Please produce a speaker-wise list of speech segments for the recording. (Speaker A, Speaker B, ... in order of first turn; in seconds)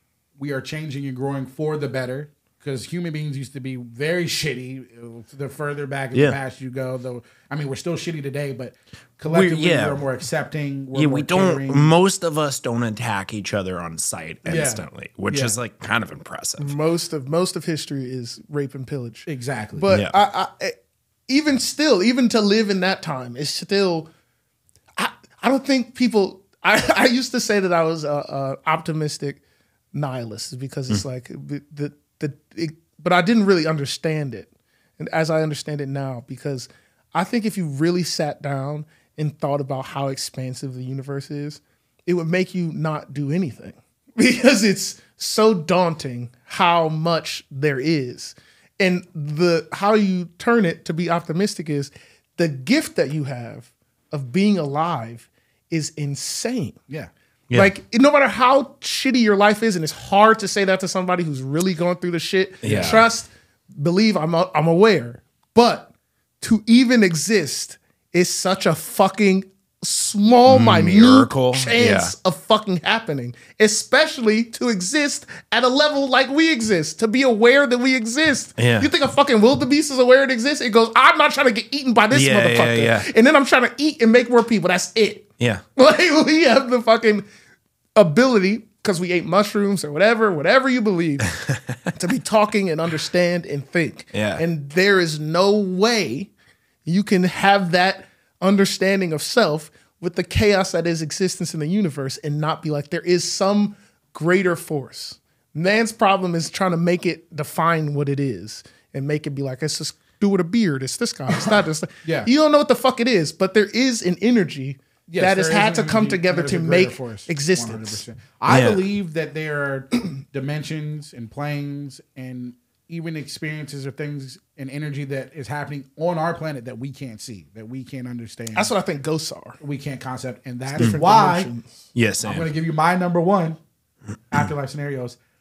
Speaker A: 0.4-11.9, 14.4-15.6, 19.3-19.9, 62.6-63.0, 112.0-112.3, 115.1-128.7, 129.6-131.5, 132.2-133.6, 134.3-135.2
Speaker B: 6.1-6.4, 9.3-10.0, 10.9-16.7, 19.9-20.1, 62.6-63.0, 70.5-72.1, 78.6-78.9, 82.1-83.1, 91.5-91.7, 94.1-94.4, 118.5-118.8, 131.9-132.5
Speaker C: 16.6-20.8, 21.3-24.1, 25.0-29.4, 29.9-56.8, 57.5-65.9, 66.4-87.3, 88.0-91.3, 91.9-96.3, 96.9-118.0, 128.6-129.6, 130.7-131.9